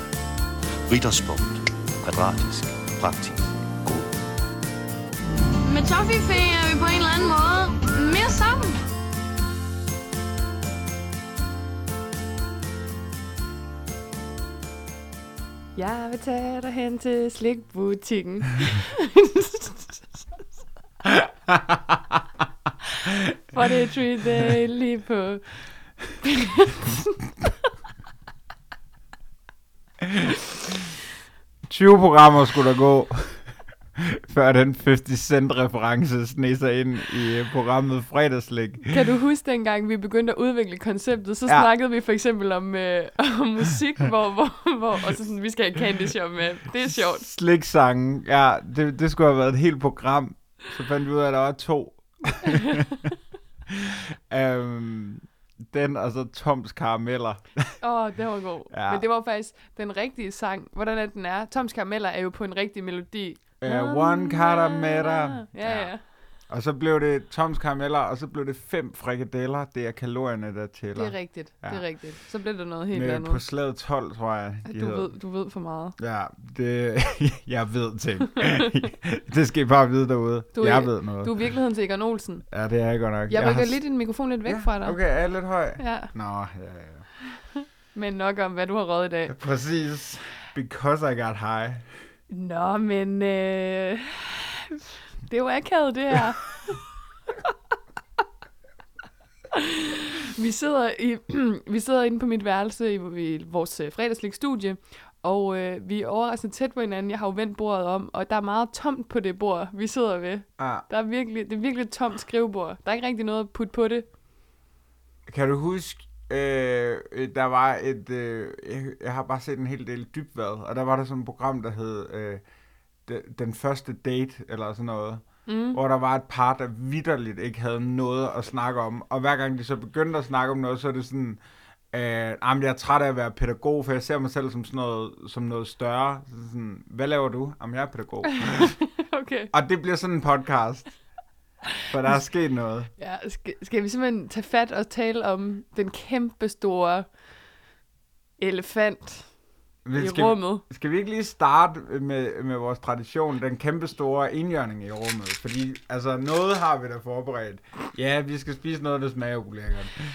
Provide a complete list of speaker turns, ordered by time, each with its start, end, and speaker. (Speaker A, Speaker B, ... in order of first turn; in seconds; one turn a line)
Speaker A: 0.9-4.2
Speaker B: 5.6-8.8
Speaker C: 15.8-20.3
Speaker D: 21.1-22.0
Speaker C: 23.0-25.4
Speaker C: 26.2-27.2
Speaker D: 30.0-30.8
Speaker D: 31.7-39.0
Speaker C: 38.9-47.2
Speaker D: 46.8-53.1
Speaker C: 52.4-53.1
Speaker D: 53.7-57.8
Speaker C: 57.8-66.0
Speaker D: 58.7-59.0
Speaker D: 63.6-65.9
Speaker D: 66.5-71.8
Speaker C: 70.9-73.4
Speaker D: 72.9-75.1
Speaker C: 74.7-76.0
Speaker D: 76.0-81.3
Speaker C: 80.5-82.4
Speaker D: 82.5-83.8
Speaker C: 83.3-85.0
Speaker D: 84.5-87.1
Speaker C: 85.8-86.1
Speaker C: 87.3-89.3
Speaker D: 89.3-91.9
Speaker C: 92.3-96.7
Speaker C: 99.5-114.1
Speaker D: 110.6-110.8
Speaker D: 115.3-122.4
Speaker D: 123.0-131.4
Speaker C: 125.5-125.8
Speaker D: 131.9-138.8
Speaker C: 138.2-139.5
Speaker D: 139.5-140.9
Speaker D: 141.9-142.9
Speaker C: 143.0-147.1
Speaker C: 148.4-149.3
Speaker D: 149.8-160.0
Speaker C: 149.9-150.6